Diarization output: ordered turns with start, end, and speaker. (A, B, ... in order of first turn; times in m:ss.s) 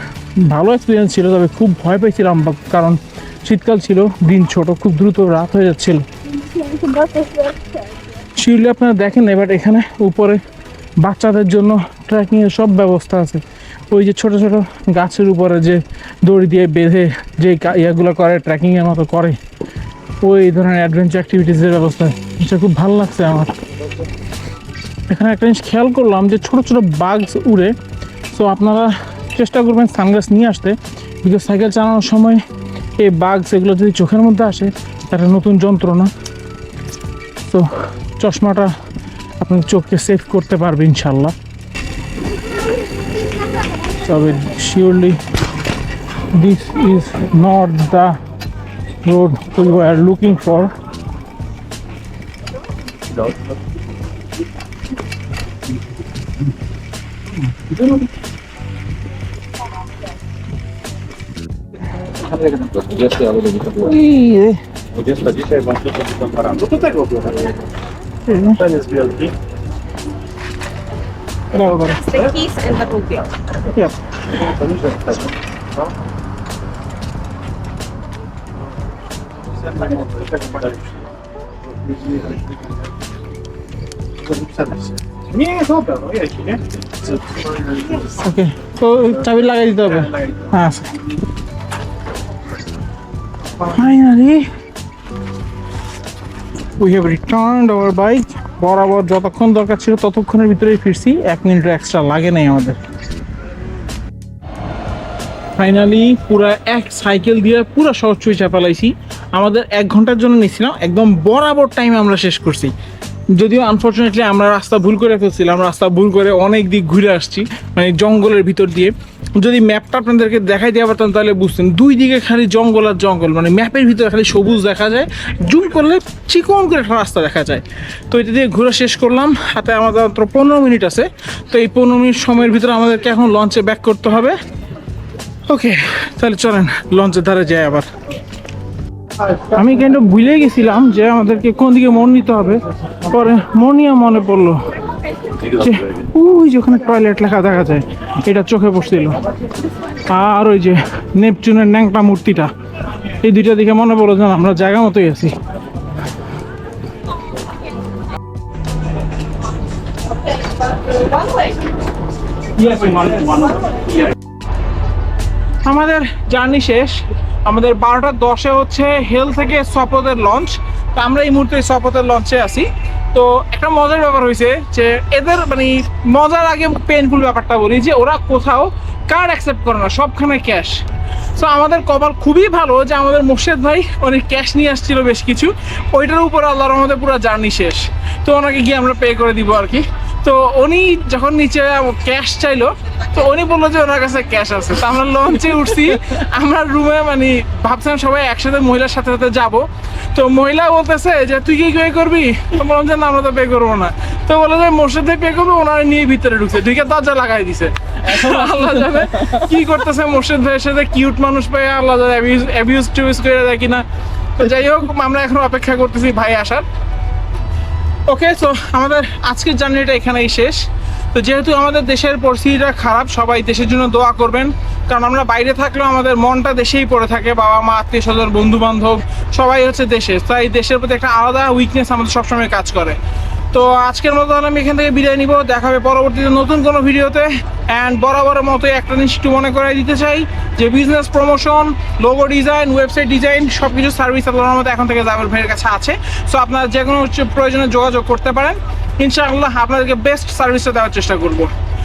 0:00.4-0:06.1 A
0:06.3-0:08.0 B
0:08.4-0:10.4 A
0:11.0-0:19.4 A
0:20.2-0:23.5 A
0:25.1-0:27.8 A
0:28.3-0:32.4 A
0:33.0-0:36.1 A
0:37.5-0:38.7 A
0:39.4-0:41.3 A
0:44.0-0:45.2 A
0:46.3-0:48.2 A
0:49.0-0:50.7 A
1:02.2-1:03.9 C
1:03.8-1:04.6 A
1:04.9-1:07.6 C
1:08.3-1:08.6 A
1:08.6-1:09.3 C
1:11.5-1:12.0 A
1:11.8-1:13.3 B
1:13.7-1:14.0 A
1:14.5-1:15.2 C
1:19.5-1:20.9 C
1:21.9-1:22.5 C
1:24.2-1:28.0 C
1:28.1-1:31.0 A
1:33.7-1:34.5 A
1:36.8-1:42.8 A
1:45.6-1:52.7 A
1:53.4-2:14.4 A
2:15.5-2:17.9 A
2:19.5-2:24.7 A
2:25.4-2:29.2 A
2:30.1-2:32.5 A
2:33.2-2:35.4 A
2:42.6-2:43.8 C
2:45.6-3:00.8 A
3:01.4-3:33.8 A
3:34.4-3:36.6 A
3:38.1-3:53.0 A
3:53.5-4:11.5 A